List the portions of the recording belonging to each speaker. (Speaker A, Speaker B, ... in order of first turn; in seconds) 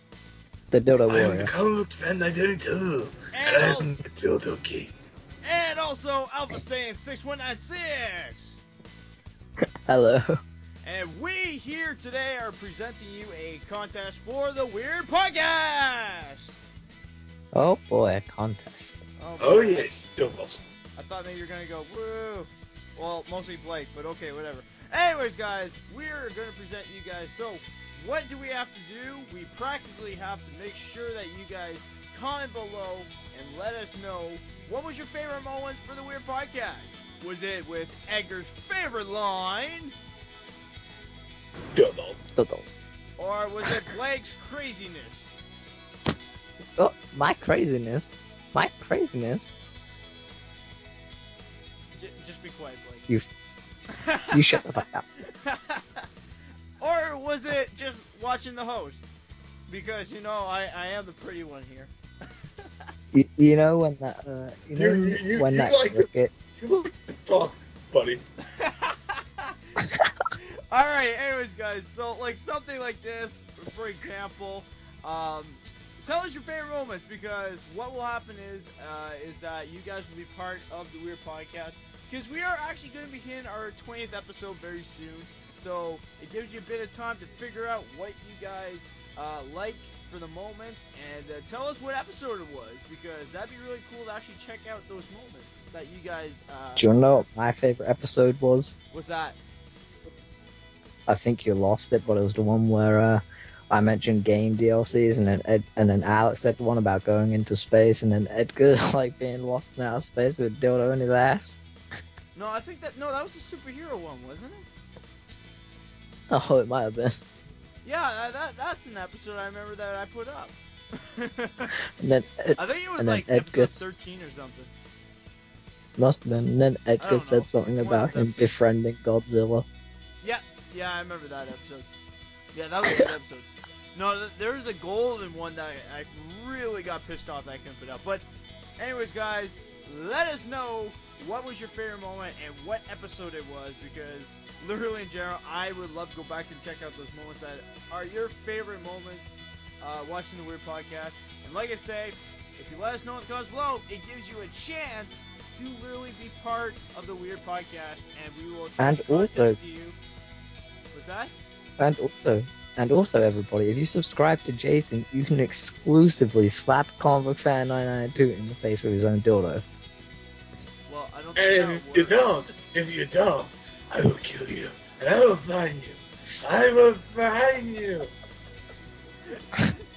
Speaker A: 0.7-1.5, 9.9-10.4, 17.6-19.0, 42.4-42.8, 46.8-49.5, 54.3-55.1, 63.1-66.3, 96.8-98.8, 101.1-111.6, 116.3-117.2, 122.0-123.9, 126.0-129.7, 158.8-159.6, 161.8-169.6
Speaker B: 1.1-4.9, 19.4-20.6, 41.8-42.2, 64.8-68.2, 171.4-178.1
Speaker C: 3.3-4.0, 5.4-8.6, 10.8-16.5, 19.2-20.1, 21.0-39.9, 43.2-45.4, 52.0-53.1, 53.9-54.6, 55.2-56.1, 56.8-59.1, 59.7-61.9, 68.5-69.8, 70.7-97.3, 98.9-99.4, 112.3-114.7, 117.8-120.6, 121.2-121.7, 122.6-124.7, 127.0-128.4, 130.2-131.9, 132.5-138.3, 138.8-160.0, 160.9-161.3, 170.9-172.2, 179.5-179.8